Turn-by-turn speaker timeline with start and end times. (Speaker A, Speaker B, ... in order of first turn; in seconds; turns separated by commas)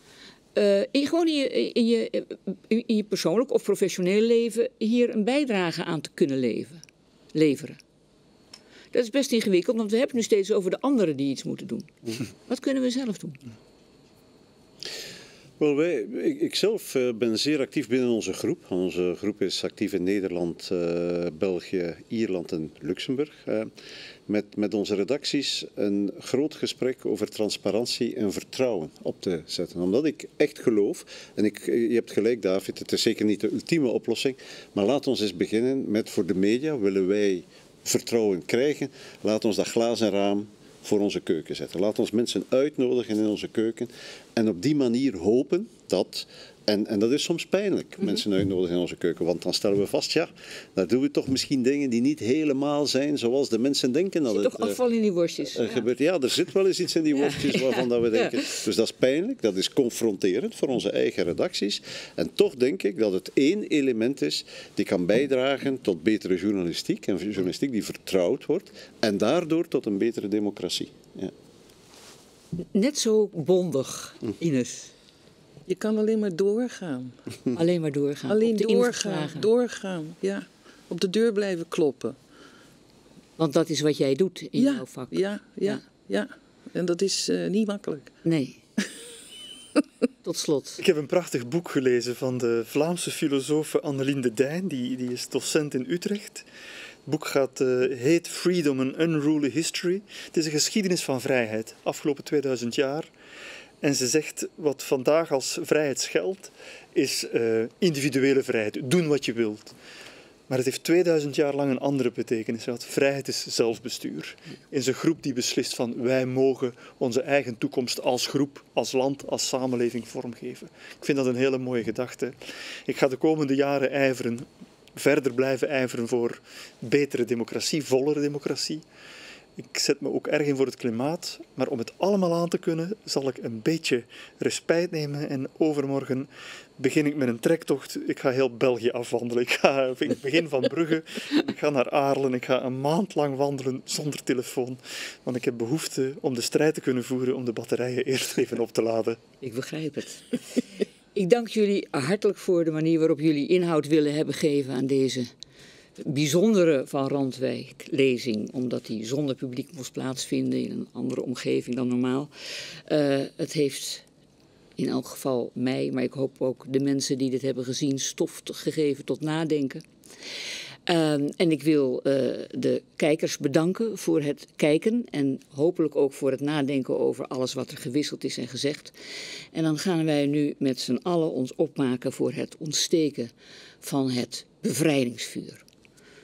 Speaker A: 0.6-6.8, Speaker A: 7.3-7.8, Speaker A: 8.9-11.9, Speaker A: 12.5-13.4, Speaker B: 15.6-23.7, Speaker B: 24.3-54.8, Speaker A: 54.3-55.8, Speaker B: 55.5-71.3, Speaker A: 57.5-58.3, Speaker A: 72.7-74.9, Speaker C: 75.7-77.2, Speaker A: 77.5-79.5, Speaker C: 78.3-82.2, Speaker A: 83.4-85.8, Speaker C: 84.6-88.1, Speaker A: 88.2-88.6, Speaker A: 90.2-90.8, Speaker D: 90.8-96.5, Speaker D: 97.1-103.1, Speaker D: 103.8-109.7, Speaker D: 110.5-128.8, Speaker D: 129.6-149.2, Speaker A: 149.4-150.4, Speaker A: 151.2-155.3, Speaker A: 156.0-162.3, Speaker A: 162.9-164.1, Speaker A: 164.8-169.8, Speaker A: 170.9-178.9, Speaker A: 179.5-185.6